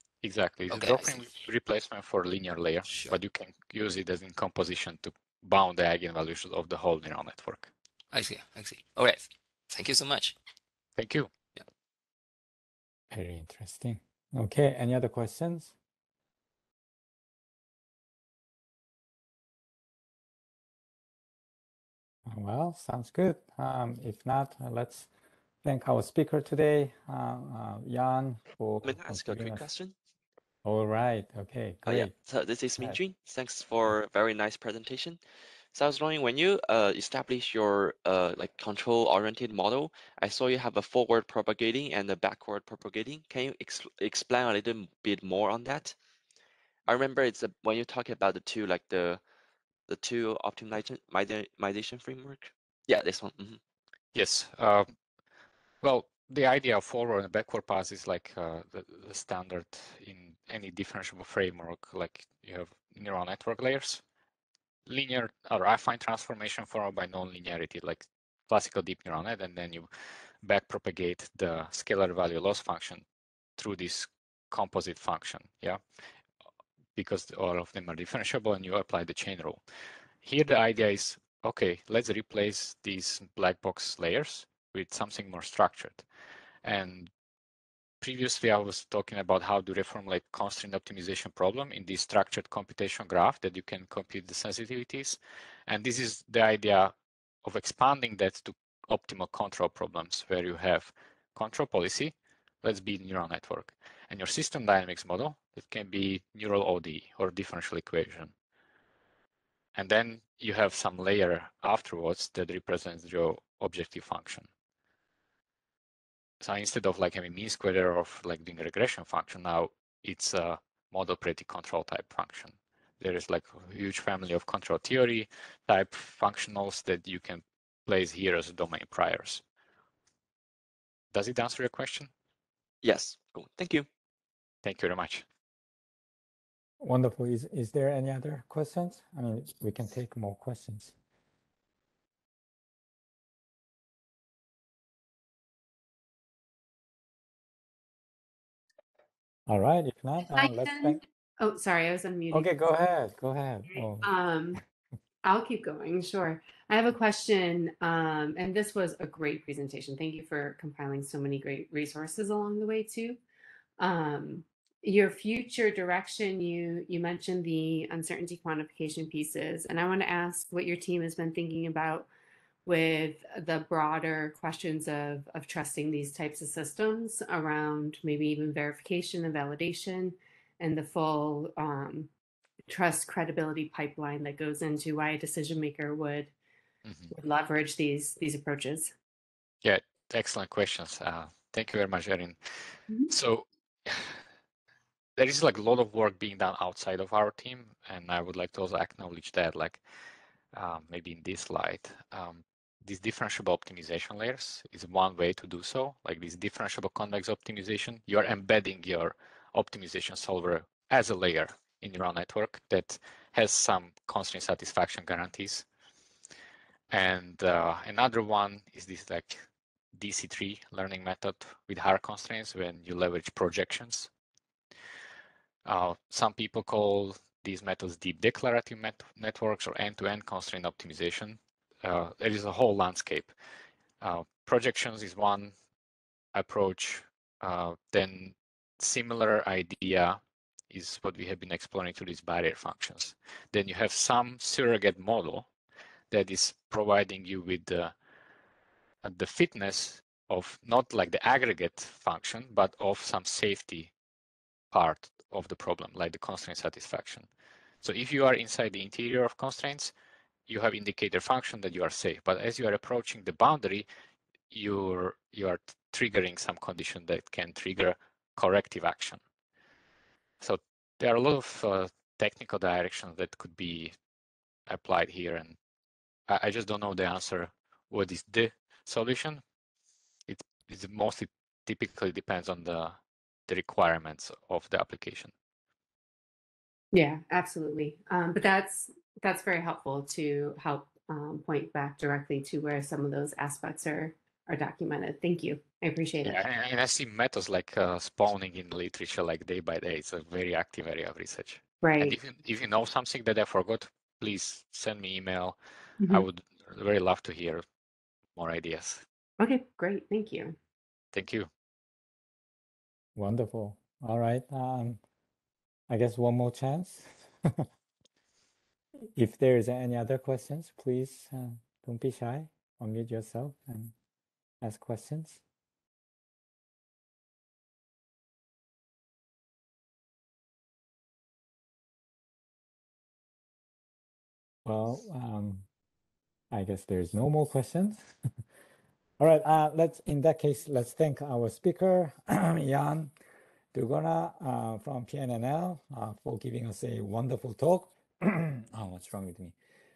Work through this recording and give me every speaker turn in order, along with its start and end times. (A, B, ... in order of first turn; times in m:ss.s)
0:00.2-0:07.7 A
0:00.7-0:01.3 B
0:02.9-0:03.2 B
0:08.1-0:10.4 B
0:11.0-0:11.3 A
0:13.1-0:15.8 C
0:22.3-0:25.1 C
0:25.6-0:29.7 C
0:28.8-0:30.0 D
0:30.6-0:32.1 C
0:31.9-0:35.2 D
0:35.7-0:46.0 D
0:46.9-0:49.2 D
0:49.9-0:53.6 D
0:54.1-0:54.9 A
0:55.8-1:04.0 A
1:04.9-1:09.9 A
1:10.4-1:13.0 A
1:13.6-1:15.8 A
1:17.0-1:19.6 A
1:20.2-1:26.1 A
1:26.6-1:27.1 A
1:28.0-1:36.9 A
1:37.4-1:48.3 A
1:49.8-1:54.5 A
1:56.4-2:09.4 A
2:11.1-2:12.1 A
2:12.8-2:13.9 D
2:14.6-2:15.2 A
2:16.8-2:20.9 C
2:29.5-2:31.0 C
2:30.2-2:32.5 E
2:32.3-2:34.1 C
2:34.0-2:34.6 E
2:35.2-2:43.2 E
2:43.8-2:52.1 E
2:52.6-3:02.1 E
3:02.7-3:06.3 E
3:06.8-3:07.1 A
3:07.1-3:08.9 E
3:09.6-3:14.2 A
3:15.2-3:19.8 A
3:20.5-3:35.6 A
3:36.9-3:44.1 A
3:45.6-3:53.3 A
3:54.0-3:55.5 A
3:56.3-4:05.5 A
4:06.1-4:07.9 A
4:09.0-4:13.9 A
4:14.7-4:17.3 A
4:17.8-4:19.9 A
4:20.5-4:23.9 A
4:24.5-4:29.2 A
4:30.4-4:33.9 A
4:34.7-4:35.6 A
4:36.3-4:39.4 A
4:40.3-4:45.3 A
4:46.9-4:56.4 E
4:56.2-5:07.6 A
5:01.8-5:02.2 E
5:06.0-5:06.3 E
5:08.4-5:09.0 A
5:09.4-5:10.6 E
5:11.1-5:11.5 A
5:13.2-5:15.0 C
5:15.9-5:17.7 C
5:19.2-5:23.9 C
5:24.6-5:25.4 C
5:34.6-5:35.7 C
5:36.5-5:38.1 C
5:39.2-5:43.1 C
5:43.7-5:49.6 C